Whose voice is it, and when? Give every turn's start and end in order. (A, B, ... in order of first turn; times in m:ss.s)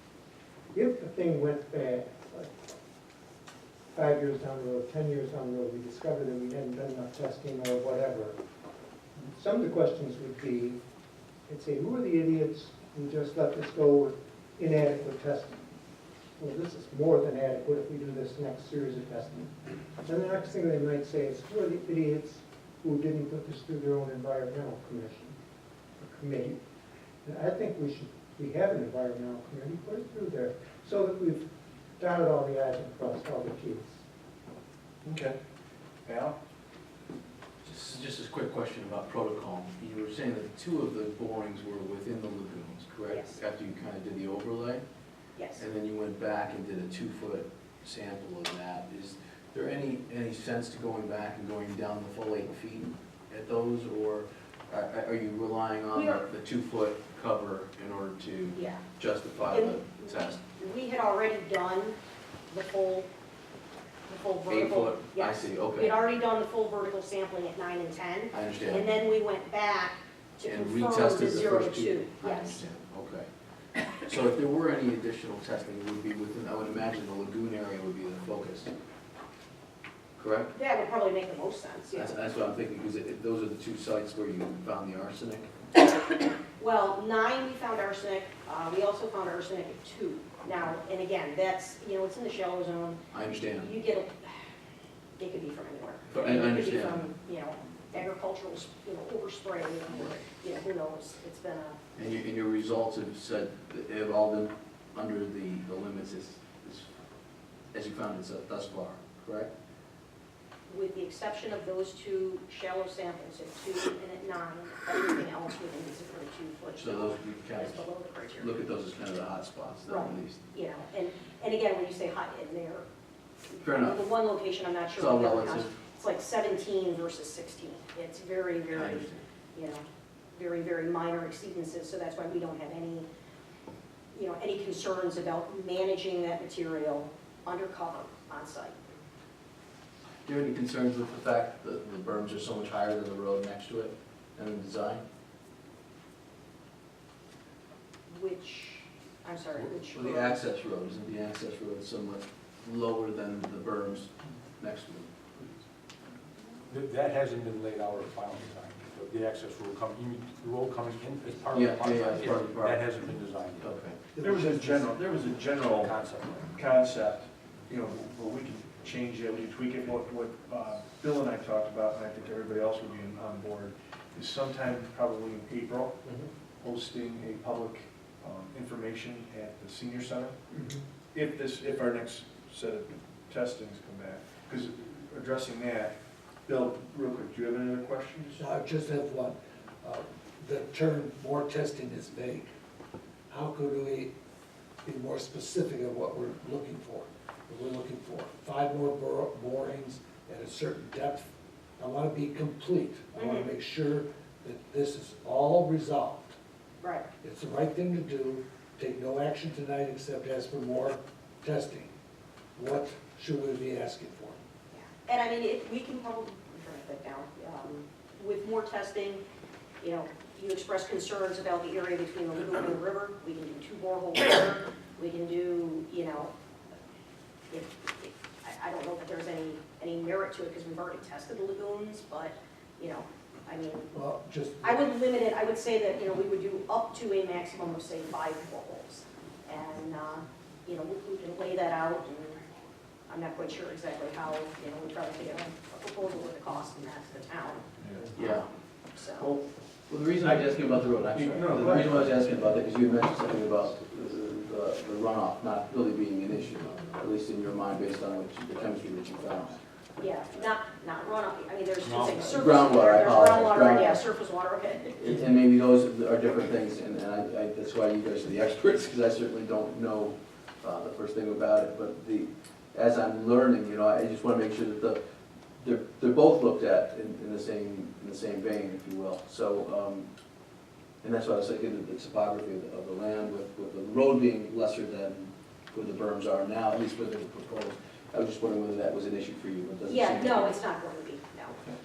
0:00.7-0:02.5 A
0:03.9-0:08.4 A
0:09.2-0:10.8 A
0:11.5-0:15.6 A
0:16.4-0:25.4 A
0:26.0-0:26.6 A
0:27.2-0:34.0 A
0:35.0-0:35.4 B
0:36.0-0:36.3 B
0:37.6-0:44.8 C
0:43.1-0:43.4 D
0:45.4-0:45.6 D
0:45.6-1:00.4 C
0:55.9-0:56.2 D
0:58.5-0:58.8 D
0:59.4-1:02.0 D
1:02.5-1:03.1 D
1:04.1-1:12.6 D
1:04.5-1:05.9 C
1:08.3-1:08.9 C
1:10.4-1:13.3 C
1:14.0-1:18.7 C
1:20.2-1:20.5 C
1:20.5-1:22.1 D
1:21.9-1:25.5 C
1:26.6-1:33.0 D
1:33.1-1:33.7 C
1:33.5-1:34.5 D
1:35.2-1:41.8 D
1:36.1-1:37.0 C
1:42.0-1:46.9 C
1:47.7-1:49.5 C
1:50.7-1:58.5 D
1:56.8-2:00.4 C
1:59.9-2:02.8 D
2:03.6-2:04.0 C
2:03.6-2:13.1 D
2:05.0-2:05.7 C
2:08.7-2:09.2 C
2:14.1-2:18.8 D
2:20.2-2:25.0 C
2:28.1-2:30.4 D
2:29.6-2:35.1 C
2:36.7-2:44.8 E
2:41.5-2:42.8 C
2:43.6-2:44.0 C
2:44.2-2:56.0 B
2:45.8-2:46.6 E
2:56.6-3:00.4 B
3:00.5-3:00.8 A
3:01.1-3:05.9 B
3:06.4-3:08.5 B
3:08.4-3:12.5 F
3:13.3-3:14.1 F
3:14.8-3:21.3 F
3:21.8-3:26.4 F
3:23.1-3:23.5 D
3:26.8-3:27.0 D
3:27.2-3:31.9 F
3:32.6-3:34.4 F
3:34.7-3:39.2 D
3:39.8-3:46.3 D
3:47.5-3:53.9 D
3:53.9-3:54.8 F
3:54.6-4:02.4 D
4:03.1-4:07.6 D
4:08.1-4:08.5 C
4:08.9-4:09.3 D
4:09.2-4:19.6 C
4:11.2-4:12.0 B
4:20.0-4:25.0 D
4:21.8-4:22.3 E
4:22.2-4:24.0 C
4:24.9-4:35.0 C
4:35.6-4:40.1 C
4:41.0-4:50.6 C
4:49.8-4:51.6 D